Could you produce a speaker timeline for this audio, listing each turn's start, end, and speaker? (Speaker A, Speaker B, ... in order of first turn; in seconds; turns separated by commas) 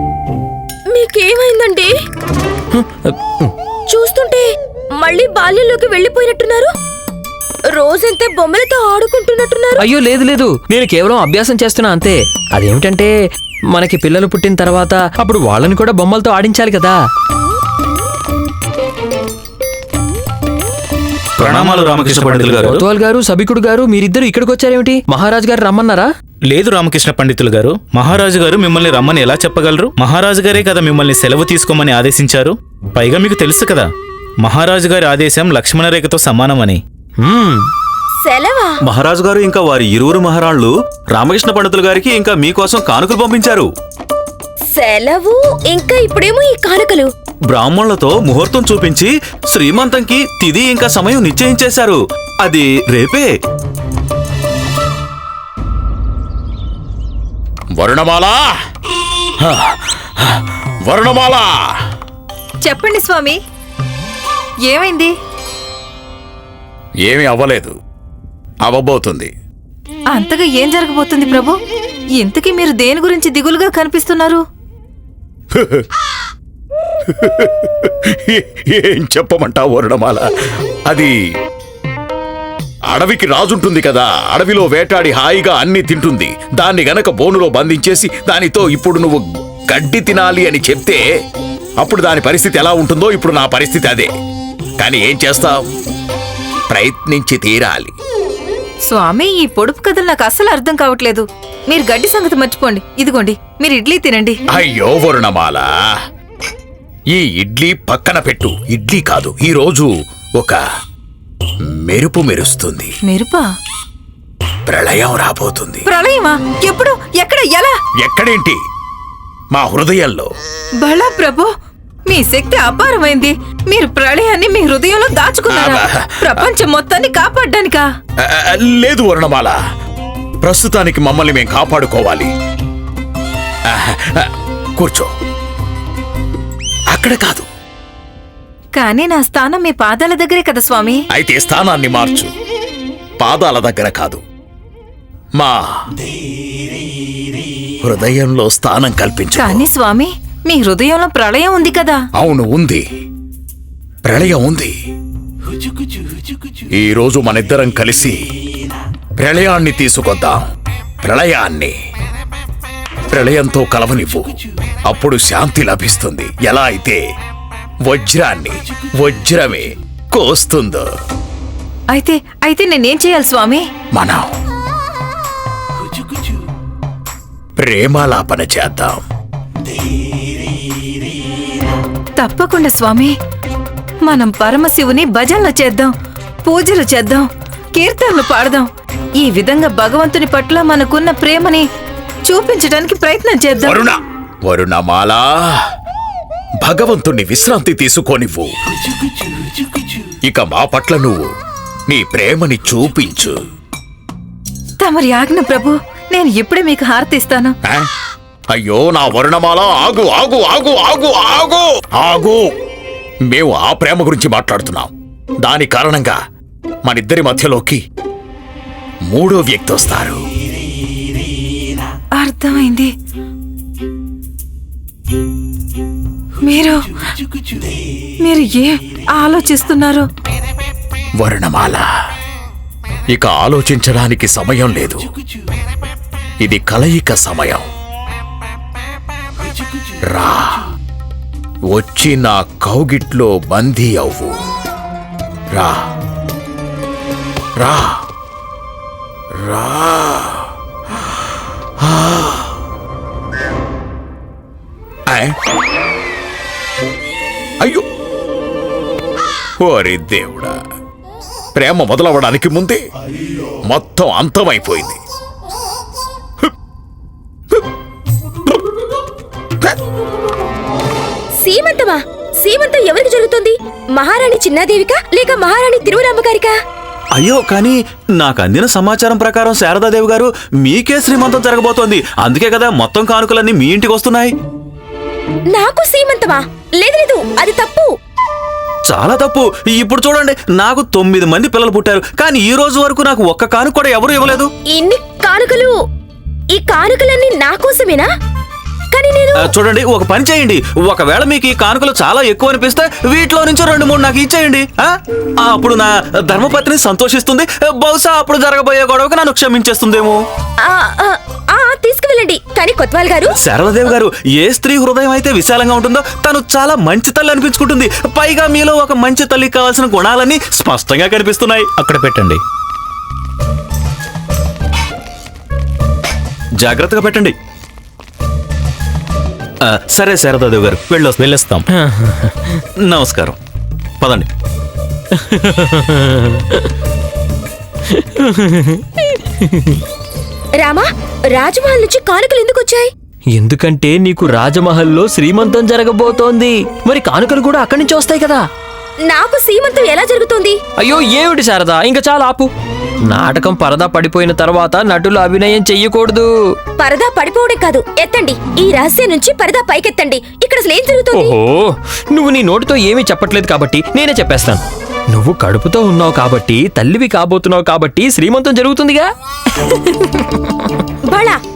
Speaker A: 0.9-1.9, Speaker B: 2.7-3.5, Speaker A: 3.9-4.5, Speaker A: 5.0-6.7, Speaker A: 7.7-9.8, Speaker B: 9.8-13.1, Speaker B: 13.7-17.0, Speaker C: 21.4-22.6, Speaker D: 21.4-22.8, Speaker B: 22.5-26.1, Speaker C: 26.5-33.9, Speaker C: 34.4-36.8, Speaker B: 37.2-37.7, Speaker A: 38.2-38.7, Speaker D: 38.8-43.7, Speaker A: 44.7-47.1, Speaker D: 47.5-53.3, Speaker E: 57.7-58.4, Speaker E: 59.4-61.5, Speaker F: 62.6-63.4, Speaker F: 64.7-65.1, Speaker E: 67.0-67.7, Speaker E: 68.6-69.3, Speaker F: 70.1-71.6, Speaker F: 72.2-74.4, Speaker E: 75.5-75.9, Speaker E: 77.1-80.2, Speaker E: 80.9-81.1, Speaker E: 82.9-91.0, Speaker E: 91.8-94.1, Speaker E: 94.8-95.7, Speaker E: 96.7-97.9, Speaker F: 98.9-104.4, Speaker E: 104.5-105.7, Speaker E: 107.1-110.6, Speaker E: 111.7-112.9, Speaker F: 113.0-113.5, Speaker E: 114.7-115.9, Speaker F: 115.8-117.8, Speaker E: 118.0-118.6, Speaker E: 119.5-120.3, Speaker F: 120.8-121.5, Speaker F: 122.0-127.9, Speaker E: 125.5-126.5, Speaker E: 128.2-129.6, Speaker E: 130.4-132.3, Speaker E: 133.7-135.1, Speaker E: 136.9-137.4, Speaker F: 138.7-141.0, Speaker E: 141.1-142.3, Speaker E: 143.2-144.2, Speaker E: 147.8-149.7, Speaker F: 149.4-152.0, Speaker E: 152.2-152.8, Speaker E: 154.1-154.7, Speaker E: 156.8-158.2, Speaker E: 159.2-160.4, Speaker E: 161.0-161.7, Speaker E: 163.1-167.0, Speaker E: 167.8-170.8, Speaker F: 171.9-173.7, Speaker E: 173.9-174.3, Speaker E: 177.6-179.0, Speaker F: 182.2-183.1, Speaker F: 184.0-185.9, Speaker F: 186.4-188.7, Speaker F: 189.2-191.7, Speaker F: 192.2-193.8, Speaker E: 193.6-195.6, Speaker E: 196.6-198.5, Speaker E: 200.2-201.3, Speaker E: 201.9-203.3, Speaker F: 204.8-207.5, Speaker E: 208.5-212.4, Speaker E: 213.3-214.9, Speaker E: 215.4-216.2, Speaker E: 216.8-217.8, Speaker E: 219.1-220.2, Speaker F: 222.2-222.9, Speaker F: 226.4-226.8, Speaker F: 228.2-230.1, Speaker E: 231.2-231.8, Speaker E: 233.1-235.1, Speaker E: 236.4-237.7, Speaker E: 240.1-240.7, Speaker E: 241.7-244.4, Speaker E: 245.5-245.8, Speaker E: 247.6-248.0, Speaker E: 249.4-252.6, Speaker E: 255.1-255.3, Speaker E: 259.6-260.5, Speaker E: 261.6-262.8, Speaker E: 263.7-265.0, Speaker A: 271.4-276.5, Speaker D: 277.1-284.4, Speaker A: 285.5-287.9, Speaker D: 288.8-294.5, Speaker A: 294.7-295.7, Speaker A: 296.5-298.1, Speaker A: 298.9-299.3, Speaker D: 299.3-310.2, Speaker A: 310.6-313.3, Speaker D: 313.3-321.8, Speaker C: 321.8-322.4, Speaker D: 326.6-327.4, Speaker D: 329.6-331.2, Speaker C: 331.2-331.6, Speaker B: 331.8-332.6, Speaker D: 332.8-333.4, Speaker D: 334.0-334.2, Speaker B: 335.2-336.6, Speaker B: 337.9-338.8, Speaker B: 339.4-339.8, Speaker A: 340.6-342.9, Speaker B: 343.3-348.4, Speaker A: 349.1-350.6, Speaker B: 350.8-352.5, Speaker B: 353.1-356.3, Speaker A: 356.8-361.3, Speaker B: 361.1-369.1, Speaker B: 369.7-370.4, Speaker A: 371.1-371.4